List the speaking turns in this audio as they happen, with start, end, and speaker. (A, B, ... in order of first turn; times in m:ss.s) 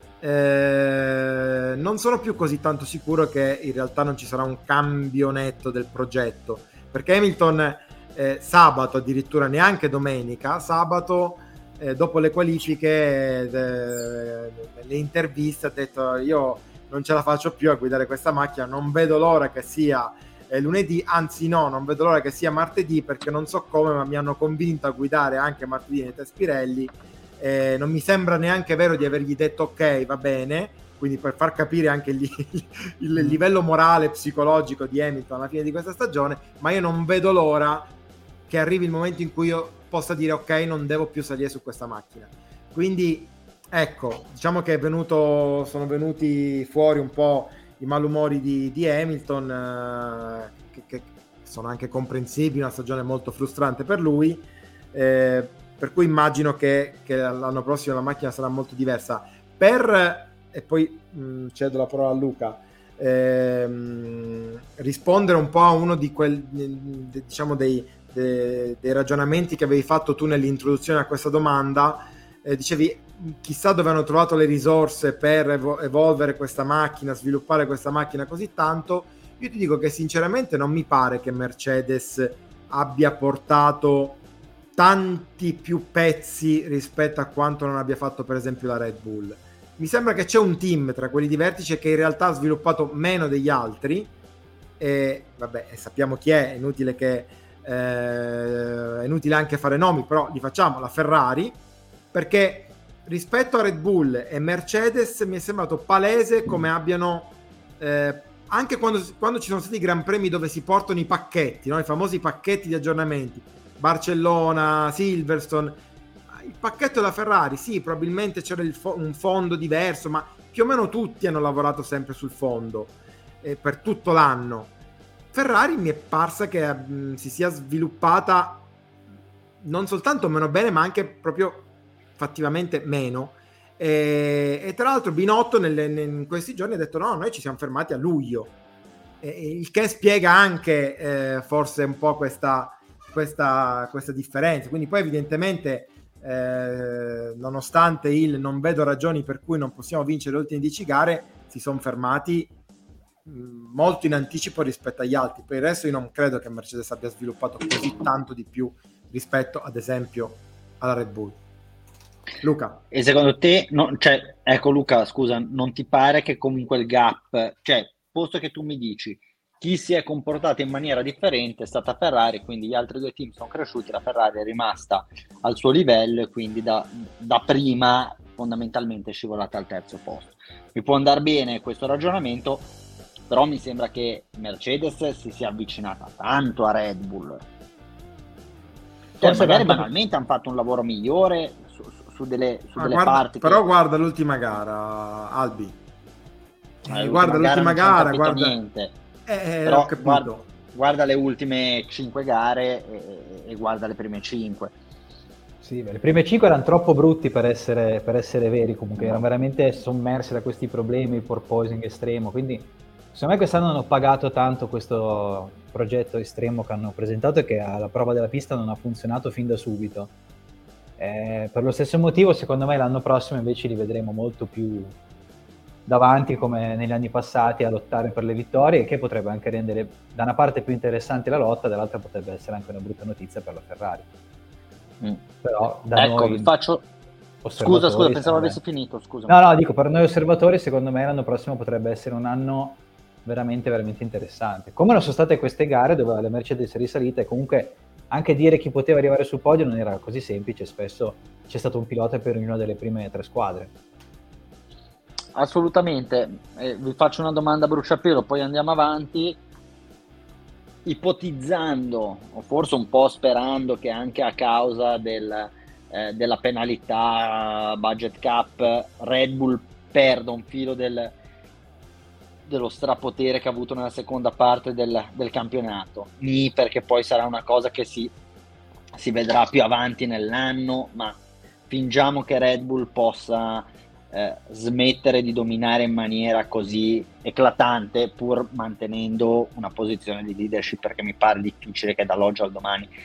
0:00.2-0:37.9 A
0:38.5-1:24.2 A
1:24.8-1:34.1 A
1:34.8-1:41.6 A
1:42.1-1:55.8 A
1:56.3-2:04.7 A
2:05.3-2:08.7 A
2:09.6-2:18.5 A
2:19.2-2:32.5 A
2:33.3-2:41.4 A
2:42.4-2:42.8 A
2:42.9-3:02.7 B
3:03.3-3:07.4 B
3:09.2-3:09.9 A
3:09.2-3:13.6 B
3:12.8-3:15.8 A
3:16.9-3:18.6 A
3:16.9-3:19.0 B
3:19.3-3:20.5 A
3:19.7-3:24.7 B
3:25.6-3:40.1 C
3:29.0-3:29.2 B
3:41.0-3:45.0 C
3:45.9-3:54.1 C
3:55.4-3:56.5 C
3:56.0-3:56.8 B
3:57.4-3:58.6 C
3:57.6-3:59.4 B
3:59.3-4:13.7 C
4:15.4-4:19.4 B
4:20.8-4:31.2 B
4:32.5-4:38.1 B
4:39.0-4:52.9 B